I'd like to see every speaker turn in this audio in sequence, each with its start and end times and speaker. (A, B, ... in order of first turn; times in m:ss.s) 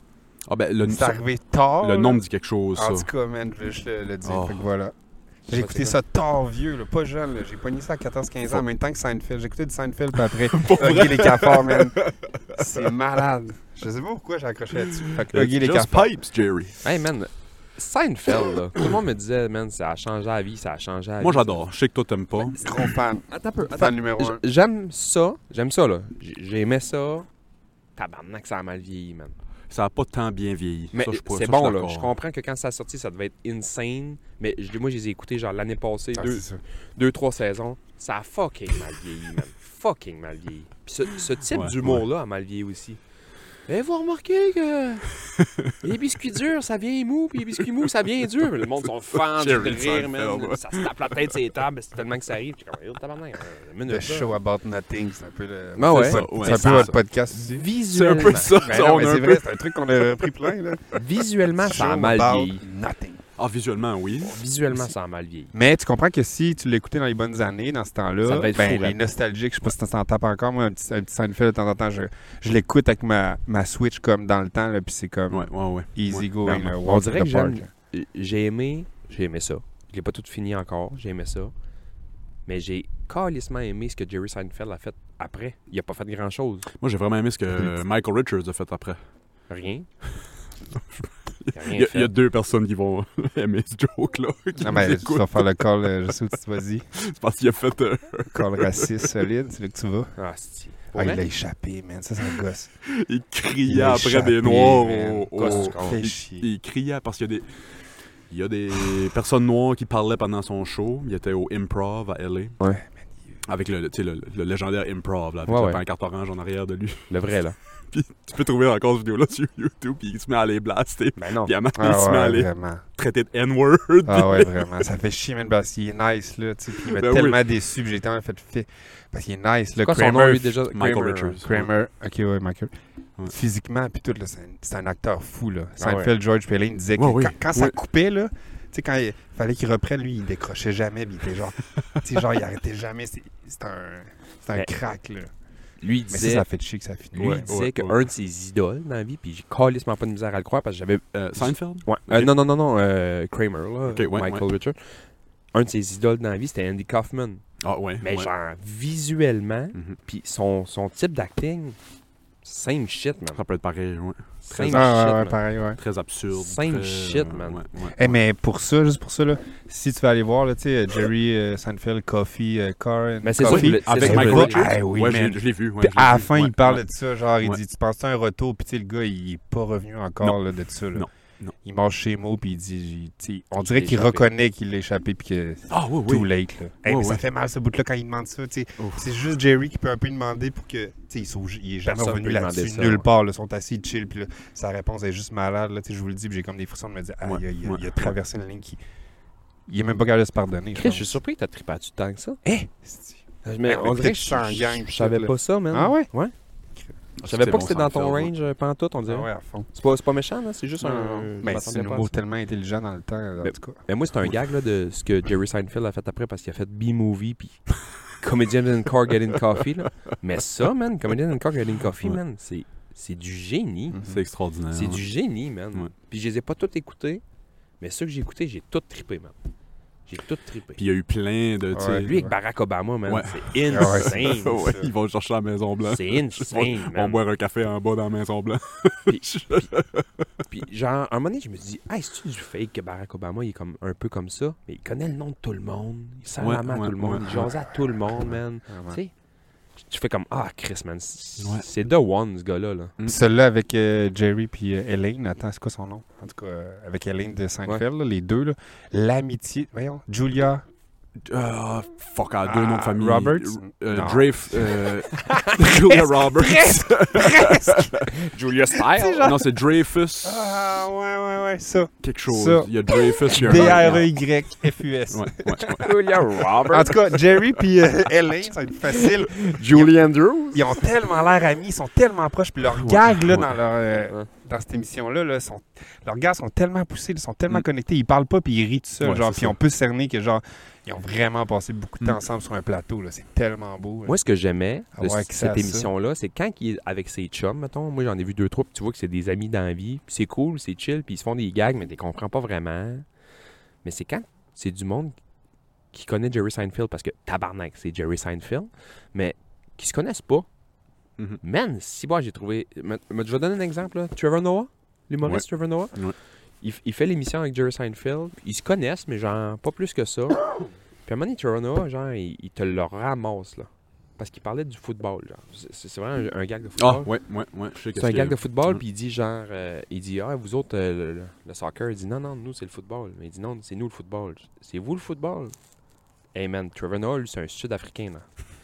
0:00.5-0:01.2 A
0:00.8-0:04.9 B
0:01.8-0:03.1 A
0:04.2-0:04.6 A
0:05.5-0:06.0 C
0:05.5-0:12.0 B
0:10.3-0:12.7 A
0:12.5-0:16.1 B
0:14.8-0:16.8 A
0:16.8-0:21.7 C
0:21.2-0:22.6 A
0:22.4-0:27.3 C
0:22.6-0:24.4 B
0:28.0-0:29.3 C
0:29.7-0:32.1 A
0:30.9-0:43.0 C
0:36.1-0:36.6 B
0:41.5-0:42.0 A
0:43.7-0:45.1 C
0:45.4-0:45.8 A
0:45.8-0:54.3 C
0:49.1-0:51.2 A
0:53.9-0:57.6 B
0:55.8-0:58.6 C
0:55.8-0:57.0 A
0:57.9-1:00.3 A
0:58.6-1:00.8 B
1:00.9-1:02.6 C
1:01.6-1:03.2 B
1:03.4-1:04.4 A
1:04.2-1:05.5 C
1:05.5-1:17.7 B
1:08.2-1:09.0 C
1:15.3-1:16.6 A
1:16.4-1:21.5 C
1:22.5-1:26.7 C
1:26.8-1:29.0 A
1:29.5-1:29.9 C
1:30.8-1:35.6 A
1:31.5-1:32.1 C
1:34.6-1:36.8 B
1:37.0-1:39.1 A
1:38.3-1:40.1 B
1:40.2-1:41.2 C
1:40.9-1:42.7 B
1:42.8-1:47.5 A
1:43.6-1:46.5 B
1:45.3-1:46.0 C
1:48.3-1:52.6 A
1:53.4-1:57.1 A
1:55.5-1:55.8 C
1:57.1-1:57.6 C
1:57.9-2:04.8 A
2:01.2-2:01.5 C
2:01.7-2:02.8 B
2:04.0-2:10.6 B
2:06.8-2:07.4 A
2:09.8-2:11.4 C
2:10.7-2:11.7 A
2:11.4-2:12.7 B
2:13.2-2:25.3 B
2:15.8-2:16.1 C
2:17.0-2:17.7 A
2:25.8-2:26.4 C
2:26.1-2:27.4 B
2:27.1-2:35.0 C
2:27.1-2:28.0 A
2:31.1-2:32.3 A
2:33.9-2:34.4 A
2:35.5-2:37.4 C
2:37.6-2:38.3 A
2:38.0-2:41.8 C
2:42.4-2:43.4 C
2:43.4-2:44.8 A
2:44.4-2:45.4 C
2:44.6-2:45.8 B
2:45.8-2:48.0 A
2:46.3-2:48.1 C
2:48.0-3:01.1 B
2:53.2-2:54.7 C
2:53.4-2:56.8 A
3:00.9-3:01.5 A
3:01.6-3:18.8 B
3:03.6-3:04.2 C
3:05.7-3:06.3 A
3:06.8-3:07.2 A
3:08.8-3:09.1 A
3:11.8-3:13.0 C
3:17.2-3:18.1 A
3:19.7-3:21.1 B
3:20.8-3:22.4 C
3:22.4-3:26.1 B
3:23.4-3:26.3 C
3:27.2-3:28.3 A
3:27.2-3:32.1 C
3:29.1-3:29.7 B
3:30.8-3:33.8 B
3:33.4-3:37.6 C
3:38.2-3:44.0 C
3:43.9-3:44.2 B
3:44.0-3:45.0 A
3:44.7-3:47.2 C
3:47.8-3:49.4 C
3:50.1-3:50.8 C
3:50.8-3:52.3 A
3:51.7-3:52.3 B
3:51.9-3:54.8 C
3:53.1-4:00.2 A
3:53.7-3:54.9 B
3:55.9-3:57.2 C
3:59.1-3:59.7 C
4:00.5-4:09.1 C
4:06.4-4:07.3 A
4:07.2-4:09.0 B
4:09.8-4:12.9 C
4:11.4-4:11.7 A
4:13.0-4:20.6 B
4:21.2-4:28.1 A
4:22.4-4:25.0 B
4:25.2-4:25.6 C
4:25.9-4:28.0 B
4:28.1-4:29.4 C
4:28.8-4:29.5 B
4:29.2-4:30.6 A
4:30.2-4:35.8 B
4:32.0-4:34.1 A
4:33.3-4:34.0 C
4:35.1-4:36.1 A
4:35.8-4:37.0 C
4:36.7-4:39.9 B
4:38.9-4:40.8 C
4:40.5-4:54.2 B
4:42.7-4:43.5 A
4:49.0-4:49.5 A
4:54.0-5:03.0 C
4:55.0-4:55.9 B
5:03.8-5:05.1 C
5:05.9-5:10.5 C
5:11.4-5:15.9 C
5:15.2-5:16.2 A
5:16.6-5:20.4 C
5:21.0-5:27.1 C
5:26.8-5:28.8 A
5:27.9-5:35.6 C
5:36.3-5:38.3 C